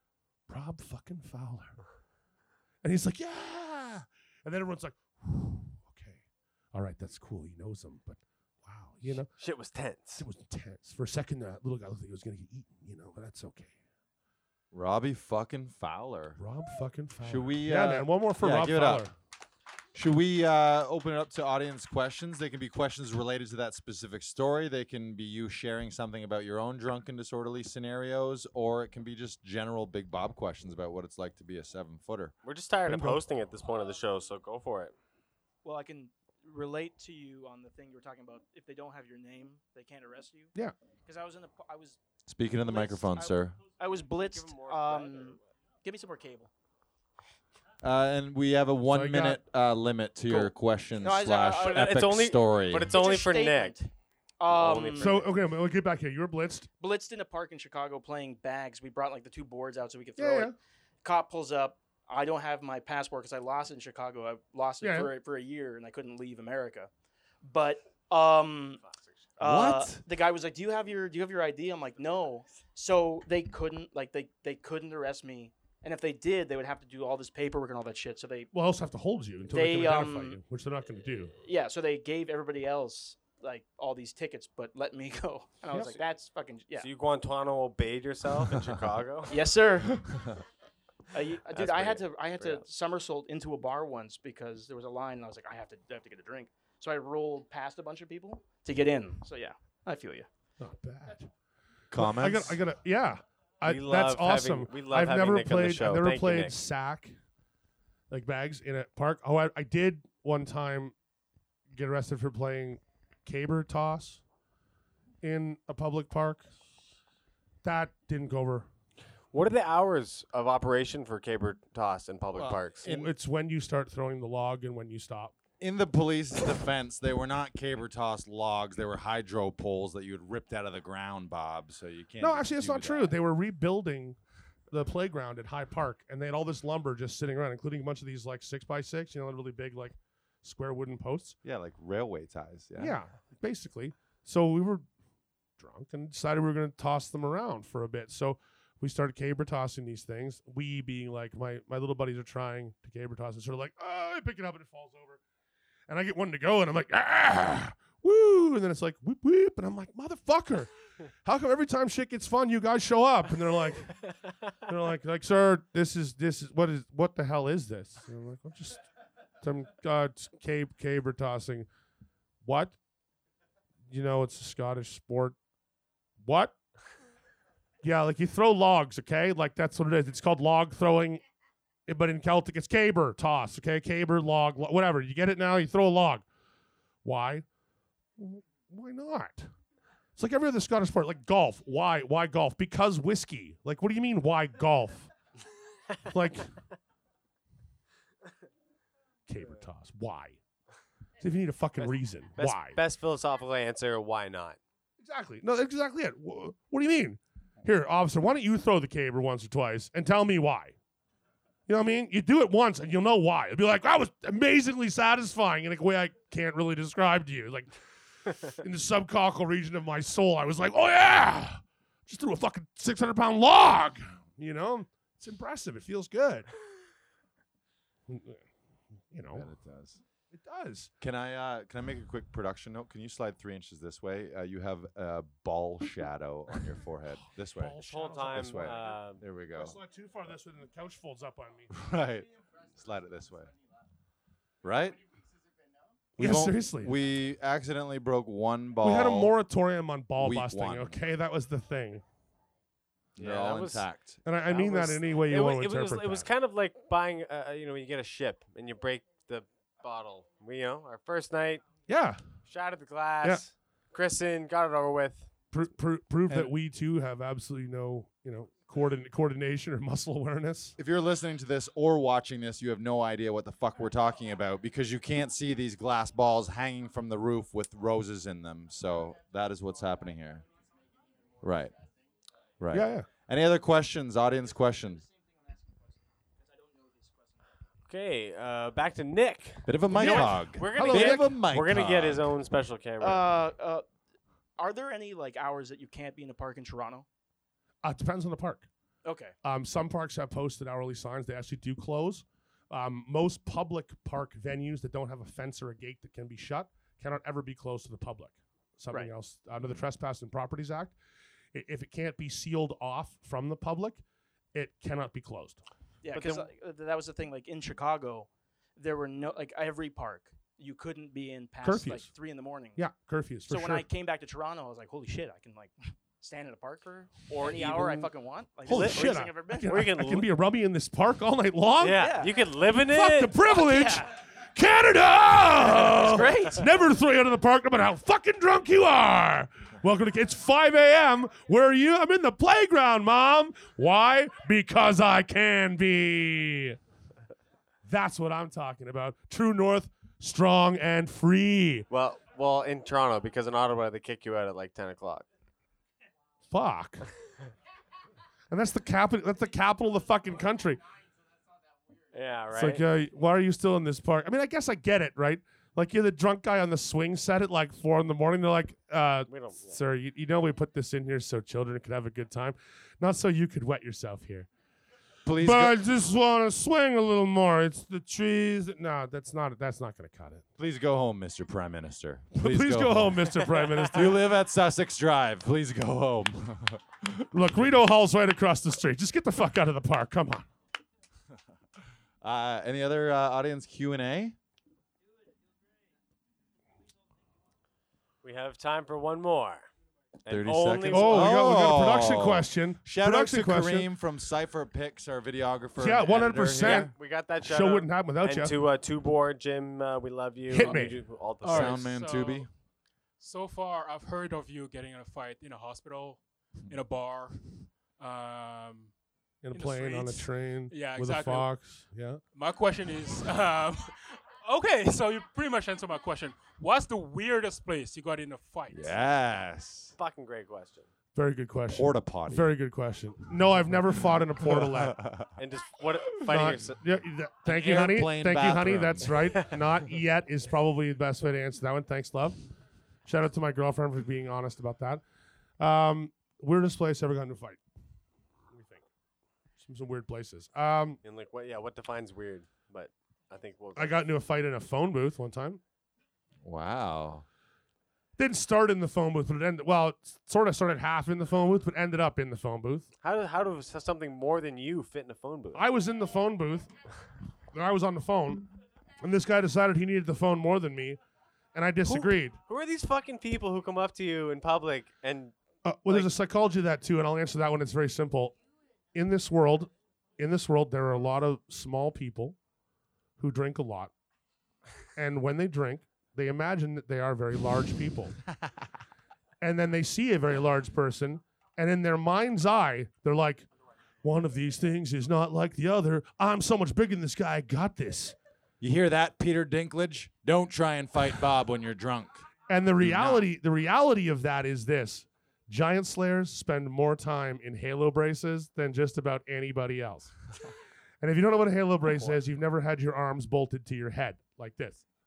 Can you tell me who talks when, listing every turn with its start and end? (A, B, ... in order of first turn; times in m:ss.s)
0:00.5-0:01.8 A
0:02.8-0:06.2 A
0:06.7-0:09.3 A
0:09.4-0:10.2 B
0:10.2-0:13.7 A
0:14.7-0:16.4 C
0:16.4-0:19.1 A
0:17.2-0:19.0 C
0:19.9-0:32.3 C
0:32.4-0:34.9 B
0:32.9-0:33.2 A
0:35.6-0:40.5 D
0:41.0-0:42.0 D
0:42.3-0:43.6 C
0:42.6-0:46.5 D
0:44.2-0:45.3 B
0:47.8-0:52.9 C
0:48.9-0:49.4 A
0:50.3-0:55.2 D
0:51.6-0:53.8 B
0:54.5-0:55.3 B
0:55.0-0:56.7 A
0:56.8-1:06.9 D
1:00.2-1:00.5 A
1:04.8-1:05.1 A
1:07.4-1:08.8 D
1:09.4-1:18.5 D
1:09.4-1:10.0 C
1:18.5-1:21.3 A
1:19.5-1:20.4 D
1:21.4-1:26.9 D
1:25.7-1:26.0 A
1:26.8-1:29.5 B
1:29.3-1:30.2 D
1:31.1-1:40.3 D
1:31.5-1:32.6 B
1:40.6-1:41.3 A
1:41.9-1:42.6 C
1:41.9-1:47.2 A
1:43.6-1:46.5 B
1:48.1-1:50.9 A
1:51.7-1:54.2 A
1:55.2-1:56.5 A
1:57.6-1:58.7 A
1:59.3-2:02.9 B
2:02.3-2:03.1 C
2:02.8-2:05.3 A
2:05.6-2:13.1 C
2:12.2-2:14.2 A
2:14.7-2:21.4 A
2:21.4-2:23.0 C
2:22.8-2:24.8 A
2:25.6-2:35.2 A
2:35.9-2:40.7 A
2:41.2-2:43.9 A
2:44.6-2:48.9 A
2:49.4-2:51.7 A
2:52.4-2:52.8 A
2:53.9-2:55.4 A
2:56.2-2:56.6 A
2:57.8-3:01.2 A
3:01.9-3:06.2 A
3:07.0-3:07.4 A
3:08.2-3:09.5 A
3:10.2-3:15.1 A
3:16.0-3:16.5 A
3:19.3-3:20.4 A
3:21.2-3:22.8 A
3:22.4-3:24.6 B
3:25.0-3:30.8 A
3:31.7-3:37.7 A
3:38.4-3:46.5 A
3:48.1-3:48.4 A
3:49.1-3:49.5 A
3:49.3-3:50.0 C
3:50.3-3:50.9 A
3:51.0-3:59.8 C
3:57.6-3:58.8 A
3:57.8-3:59.2 B
3:59.6-4:01.7 A
4:01.7-4:03.5 C
4:04.6-4:05.0 C
4:06.2-4:09.3 C
4:06.2-4:06.9 A
4:08.8-4:12.0 A
4:10.2-4:11.0 C
4:13.2-4:14.2 C
4:13.2-4:13.9 B
4:14.2-4:16.2 A
4:14.5-4:21.6 B
4:21.9-4:22.2 A
4:22.4-4:25.3 B
4:25.5-4:30.8 A
4:30.8-4:40.4 C
4:41.4-4:41.8 C
4:42.6-4:45.0 C
4:42.7-4:43.0 A
4:47.9-4:53.2 B
4:49.6-4:52.3 C
4:49.9-4:51.4 A
4:53.0-4:53.8 D
4:54.6-4:57.0 D
4:57.8-4:58.7 A
4:59.0-4:59.3 D
4:59.4-5:10.9 A
5:11.5-5:14.0 A
5:14.5-5:15.6 A
5:16.0-5:22.8 D
5:16.1-5:16.5 A
5:21.6-5:22.1 A
5:22.7-5:23.8 A
5:23.5-5:29.7 D
5:27.3-5:28.0 B
5:27.6-5:28.1 A
5:28.6-5:32.2 A
5:28.7-5:29.0 B
5:29.6-5:30.3 B
5:31.8-5:33.3 B
5:32.0-5:32.4 D
5:32.9-5:46.8 A
5:33.4-5:34.0 D
5:35.7-5:36.6 B
5:47.8-5:51.9 A
5:51.9-5:55.2 B
5:56.5-5:57.1 A
5:58.5-6:00.8 A
6:02.1-6:02.8 B
6:02.5-6:14.5 A
6:09.3-6:09.8 B
6:15.2-6:15.8 C
6:15.4-6:20.4 A
6:20.6-6:23.3 C
6:22.3-6:24.1 A
6:23.9-6:27.3 C
6:27.3-6:30.5 A
6:32.2-6:34.4 C
6:38.2-6:39.6 B
6:40.2-6:41.4 B
6:40.3-6:46.9 C
6:40.9-6:43.9 A
6:45.8-6:46.9 A
6:46.3-6:51.9 B
6:47.4-6:48.5 A
6:50.5-6:51.0 A
6:51.4-6:52.5 E
6:51.4-6:52.5 C
6:53.2-6:58.9 E
6:59.4-7:02.2 A
6:59.5-7:01.7 E
7:02.3-7:09.0 E
7:08.7-7:09.9 C
7:10.0-7:10.9 B
7:11.1-7:15.0 A
7:11.7-7:12.5 C
7:14.5-7:15.3 C
7:15.4-7:16.8 B
7:16.2-7:22.4 A
7:17.4-7:19.4 C
7:23.0-7:25.0 A
7:25.6-7:27.6 A
7:28.5-7:28.8 A
7:29.6-7:31.0 A
7:31.0-7:34.0 B
7:33.7-7:35.6 A
7:36.4-7:37.2 C
7:38.2-7:42.9 A
7:43.0-7:45.6 B
7:45.5-7:46.7 A
7:47.5-7:48.5 A
7:49.0-7:51.0 A
7:51.5-7:52.4 A
7:51.9-7:55.3 B
7:55.6-7:58.4 A
7:58.9-8:02.4 A
8:03.2-8:03.9 A
8:05.0-8:08.2 A
8:09.4-8:13.5 A
8:14.0-8:18.2 A
8:18.6-8:22.3 C
8:22.5-8:30.1 A
8:22.8-8:23.2 C
8:31.0-8:34.8 A